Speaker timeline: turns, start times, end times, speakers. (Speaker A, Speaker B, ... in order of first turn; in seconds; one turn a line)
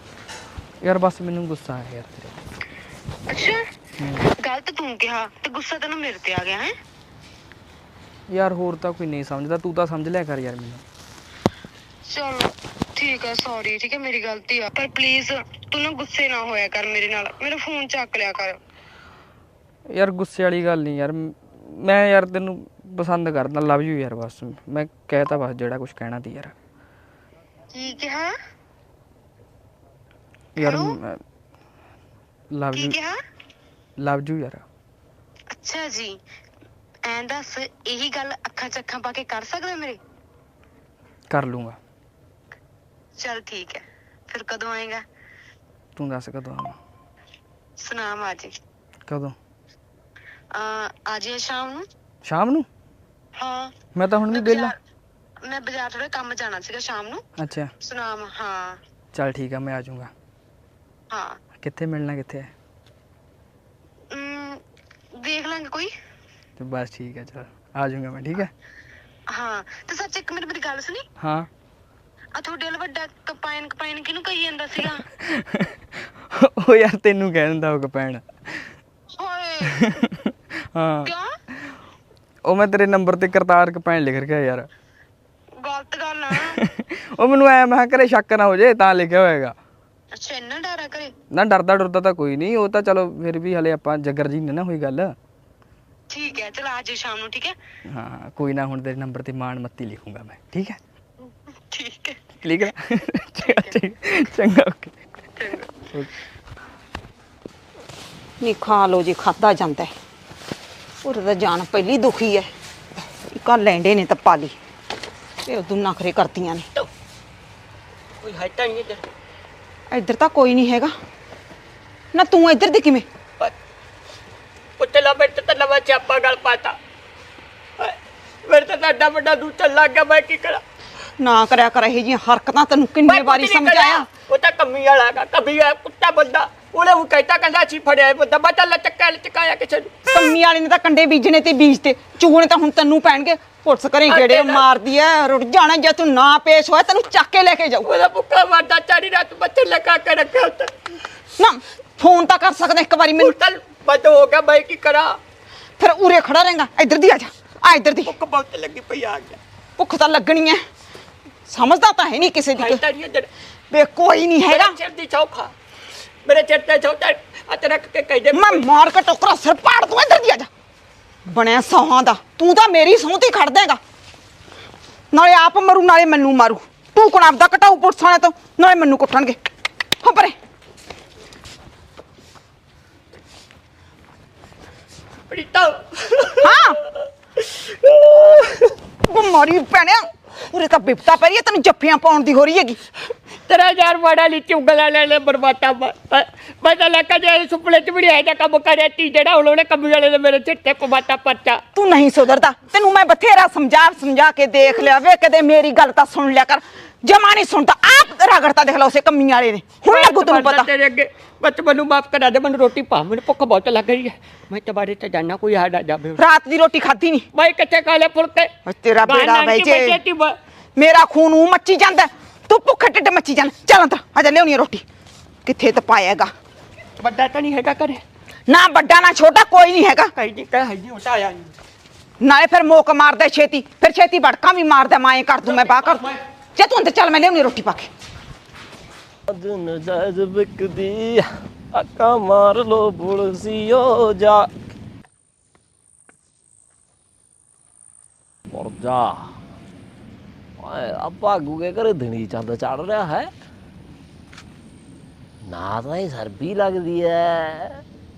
Speaker A: 0.8-2.4
Speaker B: 3.3-3.6
Speaker A: 4.0-4.2
Speaker B: 4.4-6.7
Speaker A: 8.3-10.8
Speaker B: 12.1-18.6
Speaker A: 19.9-26.5
Speaker B: 27.7-28.3
Speaker A: 30.6-31.2
Speaker B: 30.6-31.0
Speaker A: 32.5-32.9
Speaker B: 32.7-33.2
Speaker A: 34.0-34.6
Speaker B: 35.5-36.1
Speaker B: 37.0-40.0
Speaker A: 41.3-41.8
Speaker B: 43.2-45.0
Speaker A: 46.0-46.8
Speaker B: 47.8-48.5
Speaker A: 49.1-49.4
Speaker B: 50.5-51.9
Speaker A: 52.2-52.7
Speaker B: 53.4-53.7
Speaker A: 53.9-54.7
Speaker B: 54.3-54.7
Speaker B: 55.5-57.2
Speaker A: 57.4-57.7
Speaker B: 57.8-58.8
Speaker A: 59.1-60.1
Speaker B: 61.1-61.4
Speaker A: 61.6-62.5
Speaker B: 64.1-64.6
Speaker B: 65.2-65.9
Speaker A: 66.6-68.5
Speaker B: 69.3-71.0
Speaker A: 71.2-71.5
Speaker B: 72.4-75.0
Speaker A: 75.2-75.8
Speaker A: 76.3-78.7
Speaker B: 79.2-79.8
Speaker A: 79.6-80.1
Speaker A: 80.7-81.1
Speaker A: 82.5-84.7
Speaker B: 85.6-86.6
Speaker A: 86.4-89.5
Speaker B: 90.1-91.1
Speaker A: 91.3-95.1
Speaker B: 96.1-97.5
Speaker A: 97.9-100.8
Speaker B: 101.7-102.2
Speaker A: 102.4-104.9
Speaker B: 103.4-103.8
Speaker B: 105.4-105.7
Speaker C: 108.4-109.9
Speaker C: 111.0-112.5
Speaker C: 113.3-114.5
Speaker C: 115.5-116.7
Speaker D: 118.2-119.0
Speaker C: 119.9-120.9
Speaker C: 122.1-123.0
Speaker D: 124.8-126.8
Speaker D: 127.8-130.6
Speaker C: 131.2-134.1
Speaker D: 133.0-140.3
Speaker C: 140.1-147.9
Speaker D: 144.1-144.6
Speaker D: 147.8-150.8
Speaker C: 151.4-153.3
Speaker D: 153.2-155.2
Speaker C: 155.8-158.1
Speaker D: 158.0-159.4
Speaker C: 159.8-160.6
Speaker C: 161.5-162.8
Speaker D: 162.5-163.3
Speaker C: 163.7-164.7
Speaker D: 164.5-165.5
Speaker D: 166.2-168.7
Speaker C: 168.3-170.5
Speaker C: 171.3-173.8
Speaker C: 175.1-179.4
Speaker C: 180.0-180.3
Speaker D: 185.3-186.7
Speaker C: 186.4-186.8
Speaker D: 187.6-188.7
Speaker C: 189.1-192.8
Speaker D: 193.5-201.6
Speaker C: 201.7-210.7
Speaker D: 209.8-216.2
Speaker C: 216.2-217.2
Speaker D: 217.3-218.5
Speaker C: 218.7-220.0
Speaker D: 219.0-220.3
Speaker C: 220.8-224.8
Speaker C: 225.4-226.3
Speaker D: 227.0-228.0
Speaker C: 228.5-230.1
Speaker D: 230.1-231.5
Speaker C: 232.2-237.9
Speaker D: 235.4-236.1
Speaker E: 239.3-244.5
Speaker E: 248.5-249.3
Speaker E: 250.6-253.3
Speaker E: 255.5-257.8